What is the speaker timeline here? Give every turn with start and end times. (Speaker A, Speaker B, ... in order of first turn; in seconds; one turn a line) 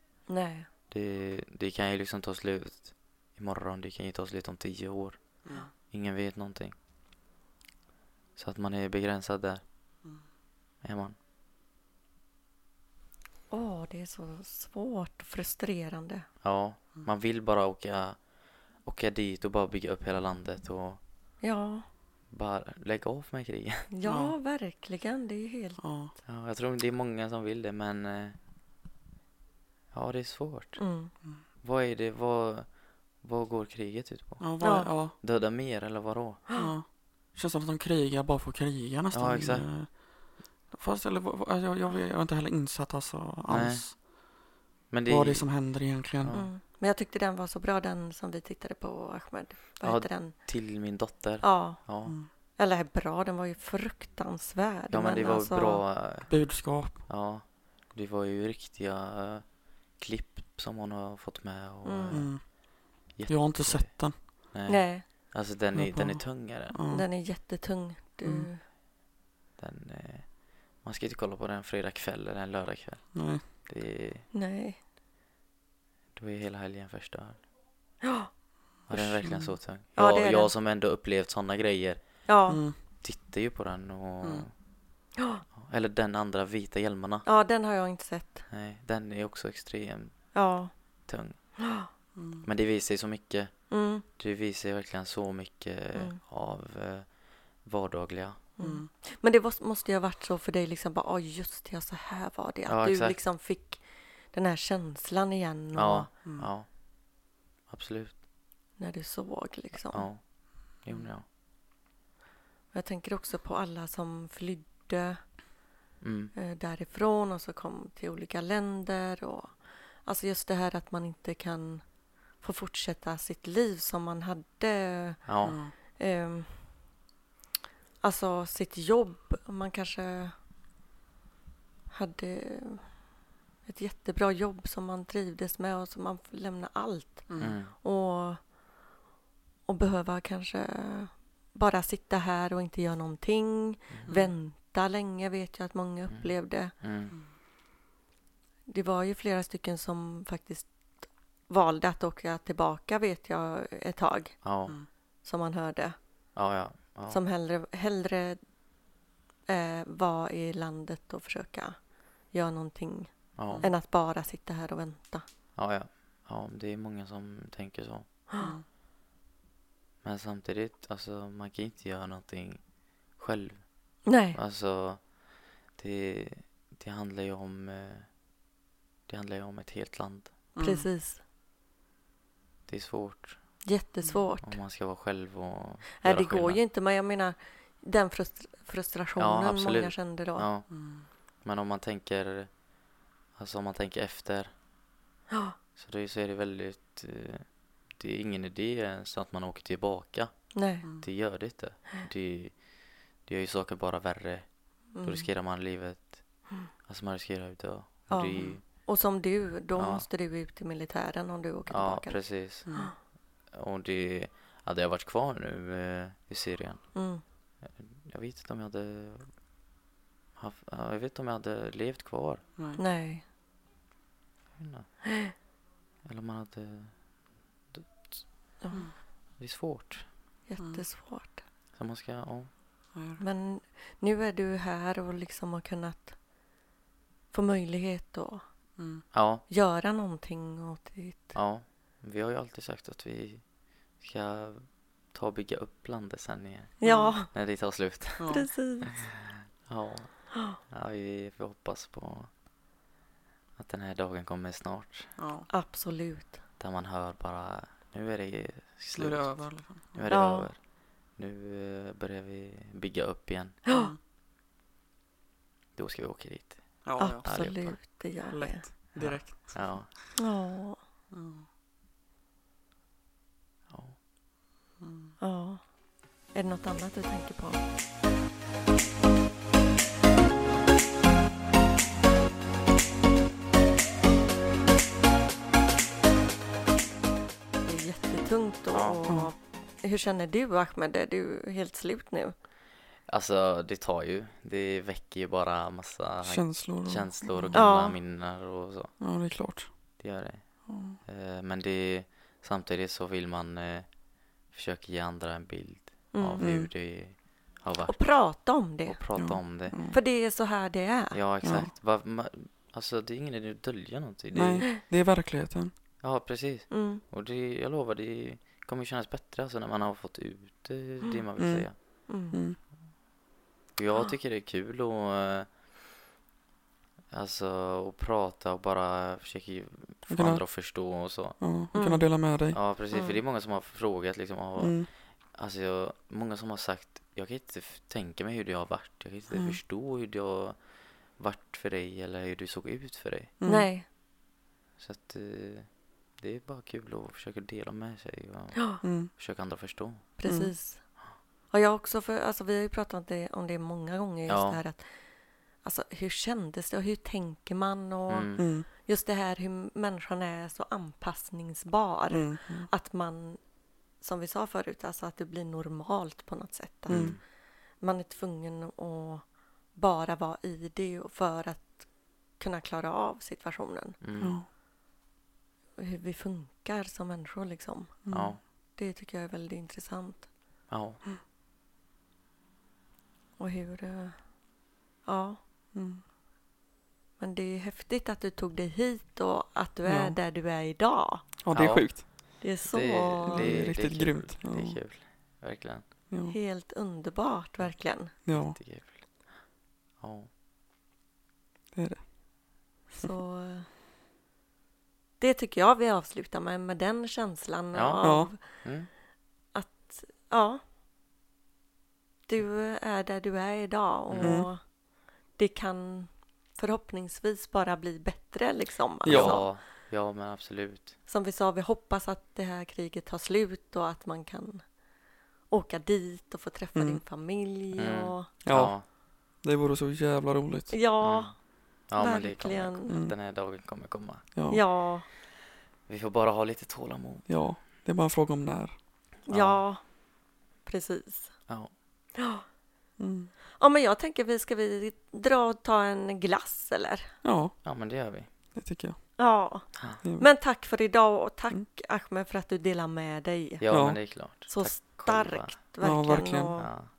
Speaker A: 0.3-0.7
Speaker B: 0.9-5.2
Speaker B: 5.8-6.7
Speaker B: 8.3-9.6
Speaker B: 10.8-11.2
Speaker A: 13.5-16.3
Speaker B: 16.4-18.2
Speaker B: 18.8-21.0
Speaker A: 21.4-21.9
Speaker B: 22.3-23.9
Speaker A: 23.9-25.8
Speaker C: 24.1-24.3
Speaker C: 25.8-26.1
Speaker B: 26.2-28.4
Speaker B: 29.9-30.8
Speaker A: 30.8-31.1
Speaker B: 31.6-36.4
Speaker C: 34.4-35.1
Speaker A: 34.6-34.9
Speaker C: 36.5-44.2
Speaker B: 39.1-39.7
Speaker B: 43.5-43.8
Speaker B: 44.9-45.5
Speaker C: 45.1-46.4
Speaker B: 46.2-46.5
Speaker A: 46.3-50.3
Speaker B: 49.8-52.1
Speaker A: 51.4-52.0
Speaker A: 52.5-55.8
Speaker B: 54.9-56.4
Speaker C: 56.3-57.0
Speaker B: 57.1-59.5
Speaker B: 60.0-62.5
Speaker A: 61.8-62.3
Speaker C: 62.1-64.2
Speaker B: 63.1-66.8
Speaker A: 64.7-65.0
Speaker C: 65.7-67.1
Speaker A: 66.9-68.6
Speaker C: 68.2-68.5
Speaker B: 69.6-74.3
Speaker C: 73.1-73.4
Speaker A: 74.3-74.8
Speaker B: 76.2-77.4
Speaker A: 78.0-78.3
Speaker B: 78.9-82.2
Speaker C: 78.9-79.5
Speaker A: 80.0-80.5
Speaker A: 82.2-82.6
Speaker C: 82.5-82.8
Speaker B: 83.0-84.5
Speaker A: 85.2-85.4
Speaker B: 85.5-87.2
Speaker A: 87.2-88.5
Speaker B: 88.5-90.2
Speaker A: 90.3-90.7
Speaker B: 91.1-91.4
Speaker A: 91.6-91.9
Speaker C: 92.1-92.5
Speaker B: 92.4-98.4
Speaker A: 93.7-94.0
Speaker A: 98.6-106.1
Speaker C: 98.6-98.9
Speaker B: 102.7-103.2
Speaker B: 105.7-106.7
Speaker C: 106.2-106.5
Speaker B: 107.7-108.2
Speaker A: 108.8-110.1
Speaker B: 109.8-110.2
Speaker B: 110.7-111.2
Speaker A: 112.7-115.2
Speaker B: 116.0-116.3
Speaker A: 116.3-121.8
Speaker A: 122.4-126.8
Speaker B: 125.2-125.6
Speaker C: 125.4-125.7
Speaker A: 128.0-130.3
Speaker A: 131.9-133.0
Speaker A: 133.7-138.4
Speaker C: 137.3-137.6
Speaker B: 137.4-137.7
Speaker A: 139.7-146.7
Speaker C: 144.1-144.3
Speaker B: 146.1-147.2
Speaker A: 148.7-154.3
Speaker B: 154.4-154.8
Speaker A: 155.2-156.0
Speaker B: 156.3-157.2
Speaker A: 157.1-158.4
Speaker A: 159.5-161.8
Speaker A: 162.3-165.2
Speaker B: 163.3-163.7
Speaker B: 165.6-168.1
Speaker C: 168.4-168.6
Speaker B: 170.0-172.6
Speaker B: 173.2-173.6
Speaker A: 174.0-174.4
Speaker B: 174.3-175.1
Speaker B: 175.7-178.1
Speaker B: 179.1-180.3
Speaker C: 180.5-180.9
Speaker A: 180.6-181.2
Speaker B: 182.7-183.4
Speaker A: 183.6-184.6
Speaker B: 184.4-186.6
Speaker A: 186.0-190.5
Speaker B: 189.2-190.7
Speaker C: 190.7-191.1
Speaker B: 191.4-192.5
Speaker B: 193.4-194.5
Speaker A: 195.3-195.6
Speaker B: 195.8-200.3
Speaker A: 200.5-200.8
Speaker B: 201.0-202.6
Speaker B: 203.2-204.5
Speaker A: 204.9-205.3
Speaker B: 205.0-206.2
Speaker B: 206.8-208.6
Speaker A: 208.1-212.9
Speaker B: 209.8-210.1
Speaker B: 211.7-212.7
Speaker B: 213.5-216.8
Speaker A: 216.9-217.2
Speaker B: 217.6-219.3
Speaker B: 220.4-222.4
Speaker A: 222.8-223.2
Speaker B: 224.6-224.8
Speaker A: 225.1-225.3
Speaker B: 226.0-227.0
Speaker B: 227.7-228.2
Speaker B: 229.4-230.1
Speaker A: 230.5-231.4
Speaker C: 230.6-230.8
Speaker B: 231.8-232.5
Speaker C: 232.9-233.2
Speaker A: 233.2-236.2
Speaker A: 237.3-238.4
Speaker C: 238.8-239.0
Speaker B: 239.1-239.4
Speaker A: 239.5-241.3
Speaker B: 241.3-243.4
Speaker B: 244.0-248.3
Speaker A: 246.8-247.3
Speaker C: 246.8-247.2
Speaker C: 248.2-248.5
Speaker A: 248.3-248.9
Speaker B: 248.9-252.3
Speaker A: 250.3-250.6
Speaker B: 253.6-255.1
Speaker C: 255.2-255.5
Speaker A: 255.5-256.4
Speaker B: 256.6-263.6
Speaker C: 258.9-260.1
Speaker A: 260.1-260.5
Speaker A: 263.6-263.9
Speaker C: 263.7-264.0
Speaker B: 265.7-267.8
Speaker C: 266.8-267.5
Speaker A: 267.0-268.6
Speaker C: 268.3-270.2
Speaker B: 268.9-269.9
Speaker A: 270.1-270.8
Speaker C: 271.1-271.5
Speaker B: 273.7-274.0
Speaker C: 274.8-275.1
Speaker A: 275.2-275.6
Speaker A: 276.3-277.6
Speaker A: 287.6-292.3
Speaker B: 288.7-289.0
Speaker C: 289.1-289.3
Speaker B: 293.1-298.9
Speaker C: 296.2-297.6
Speaker A: 297.5-297.9
Speaker C: 299.0-299.7
Speaker B: 300.0-300.4
Speaker C: 300.7-301.0
Speaker B: 301.0-303.9
Speaker B: 304.5-308.1
Speaker A: 306.1-306.4
Speaker C: 306.4-306.7
Speaker A: 307.9-309.0
Speaker B: 308.9-309.8
Speaker C: 309.2-310.0
Speaker A: 309.9-311.2
Speaker B: 311.1-314.6
Speaker C: 311.4-311.7
Speaker C: 314.3-315.7
Speaker B: 316.0-321.7
Speaker A: 316.7-317.0
Speaker C: 321.4-321.6
Speaker A: 322.1-322.4
Speaker C: 322.3-322.6
Speaker B: 323.8-325.5
Speaker B: 327.1-331.4
Speaker C: 330.1-330.4
Speaker C: 331.4-332.6
Speaker A: 331.7-332.1
Speaker B: 332.5-340.6
Speaker A: 332.9-333.2
Speaker C: 334.6-334.9
Speaker C: 339.3-339.6
Speaker B: 341.2-343.3
Speaker C: 343.4-343.7
Speaker A: 343.4-343.9
Speaker B: 344.8-350.1
Speaker C: 348.8-349.1
Speaker A: 350.2-350.8
Speaker C: 350.2-350.5
Speaker A: 351.5-354.9
Speaker B: 354.3-354.6
Speaker A: 355.6-363.4
Speaker B: 358.1-358.4
Speaker C: 358.4-358.7
Speaker C: 362.1-362.7
Speaker A: 364.0-367.2
Speaker C: 366.9-367.1
Speaker B: 366.9-367.2
Speaker A: 367.8-374.0
Speaker B: 374.0-374.4
Speaker C: 374.2-374.4
Speaker A: 375.8-378.0
Speaker C: 378.0-378.4
Speaker B: 378.1-378.4
Speaker A: 378.8-380.3
Speaker B: 380.7-381.0
Speaker A: 383.4-384.2
Speaker A: 385.1-385.4
Speaker C: 385.7-386.0
Speaker A: 387.2-391.2
Speaker C: 389.9-390.2
Speaker C: 391.4-392.1
Speaker B: 391.5-395.8
Speaker A: 392.4-393.6
Speaker C: 393.2-394.8
Speaker C: 396.1-396.4
Speaker A: 396.3-398.1
Speaker C: 398.2-398.6
Speaker B: 398.3-399.0
Speaker B: 400.0-400.3
Speaker C: 401.7-402.0
Speaker A: 402.9-403.7
Speaker A: 405.2-408.4
Speaker B: 407.7-408.9
Speaker C: 408.0-408.3
Speaker A: 409.5-410.6
Speaker A: 412.3-414.6
Speaker B: 414.1-414.4
Speaker C: 414.2-414.5
Speaker A: 415.4-419.5
Speaker C: 419.0-419.4
Speaker B: 419.1-420.9
Speaker A: 421.1-424.6
Speaker A: 425.5-428.3
Speaker C: 426.7-427.0
Speaker B: 427.7-428.8
Speaker C: 428.4-428.8
Speaker C: 429.4-430.8
Speaker A: 430.7-431.3
Speaker B: 431.0-431.3
Speaker B: 431.9-434.2
Speaker A: 432.0-432.9
Speaker C: 432.9-433.1
Speaker C: 434.3-434.6
Speaker A: 434.5-435.1
Speaker B: 435.9-437.3
Speaker C: 437.3-438.8
Speaker B: 439.2-439.6
Speaker A: 439.3-439.8
Speaker A: 440.6-441.3
Speaker A: 442.2-442.4
Speaker C: 443.0-443.3
Speaker A: 443.6-447.1
Speaker C: 447.2-447.6
Speaker B: 447.6-448.3
Speaker C: 448.5-449.0
Speaker A: 449.2-453.6
Speaker B: 449.7-450.0
Speaker C: 450.0-450.3
Speaker B: 453.6-455.6
Speaker C: 453.7-454.0
Speaker A: 454.5-456.7
Speaker C: 455.8-456.5
Speaker B: 456.6-456.9